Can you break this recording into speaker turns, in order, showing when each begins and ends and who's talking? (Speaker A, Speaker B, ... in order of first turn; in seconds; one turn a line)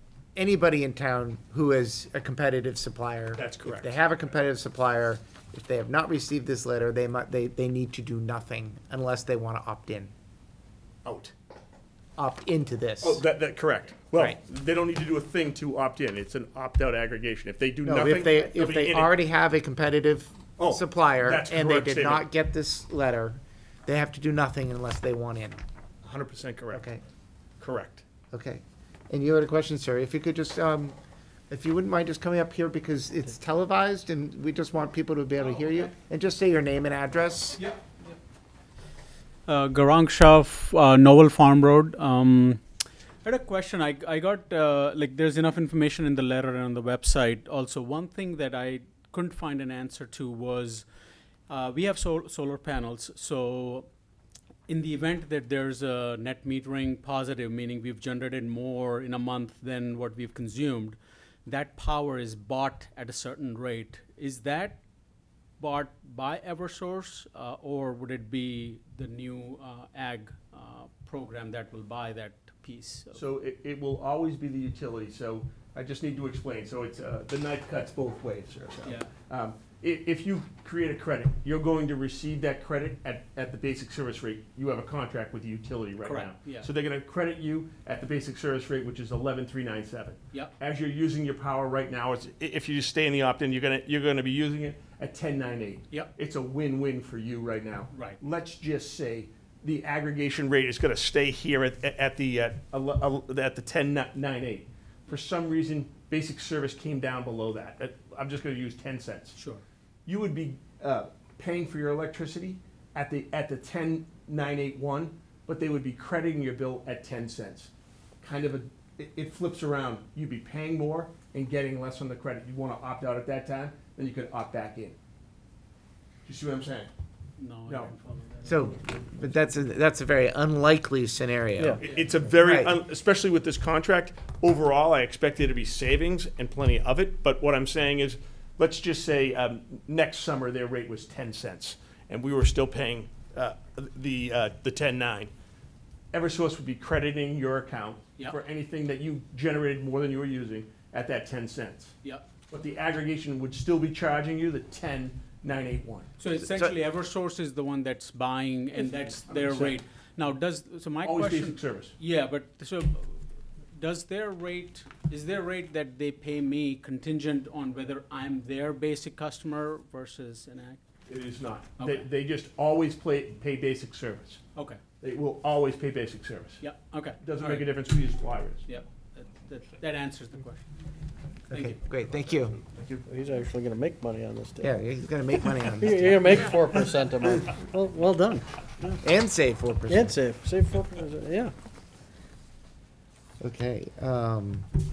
Speaker A: 0.3-10.1
Speaker B: 3.4-4.1
Speaker B: 11.1-11.3
Speaker A: 12.2-13.2
Speaker B: 13.0-19.1
Speaker A: 17.9-25.6
Speaker B: 20.6-22.3
Speaker B: 26.0-26.9
Speaker A: 26.7-27.0
Speaker B: 27.6-28.1
Speaker A: 28.3-31.0
Speaker A: 31.5-37.6
Speaker C: 37.6-38.2
Speaker C: 39.5-42.6
Speaker C: 43.2-50.9
Speaker C: 51.5-53.9
Speaker C: 54.7-64.8
Speaker C: 65.6-73.2
Speaker B: 73.1-109.4
Speaker C: 78.8-79.1
Speaker C: 86.0-86.7
Speaker C: 97.9-98.2
Speaker C: 109.3-109.6
Speaker B: 110.1-117.7
Speaker B: 118.2-125.0
Speaker B: 126.3-126.9
Speaker C: 127.4-129.3
Speaker B: 127.7-127.9
Speaker A: 128.4-132.8
Speaker B: 131.8-145.3
Speaker C: 131.8-132.1
Speaker B: 146.1-152.0
Speaker B: 152.5-156.1
Speaker C: 156.2-163.2
Speaker A: 156.4-156.8
Speaker B: 159.1-159.8
Speaker B: 161.0-161.9
Speaker C: 163.7-170.8
Speaker B: 171.1-174.4
Speaker C: 171.8-172.1
Speaker C: 174.6-174.8
Speaker B: 175.0-176.6
Speaker C: 176.6-177.8
Speaker B: 177.2-178.7
Speaker C: 178.7-180.7
Speaker A: 181.5-182.6
Speaker C: 181.5-181.8
Speaker B: 182.7-183.1
Speaker D: 183.1-184.8
Speaker A: 184.6-186.5
Speaker D: 185.8-188.5
Speaker A: 189.0-190.2
Speaker D: 189.9-191.5
Speaker A: 193.4-194.7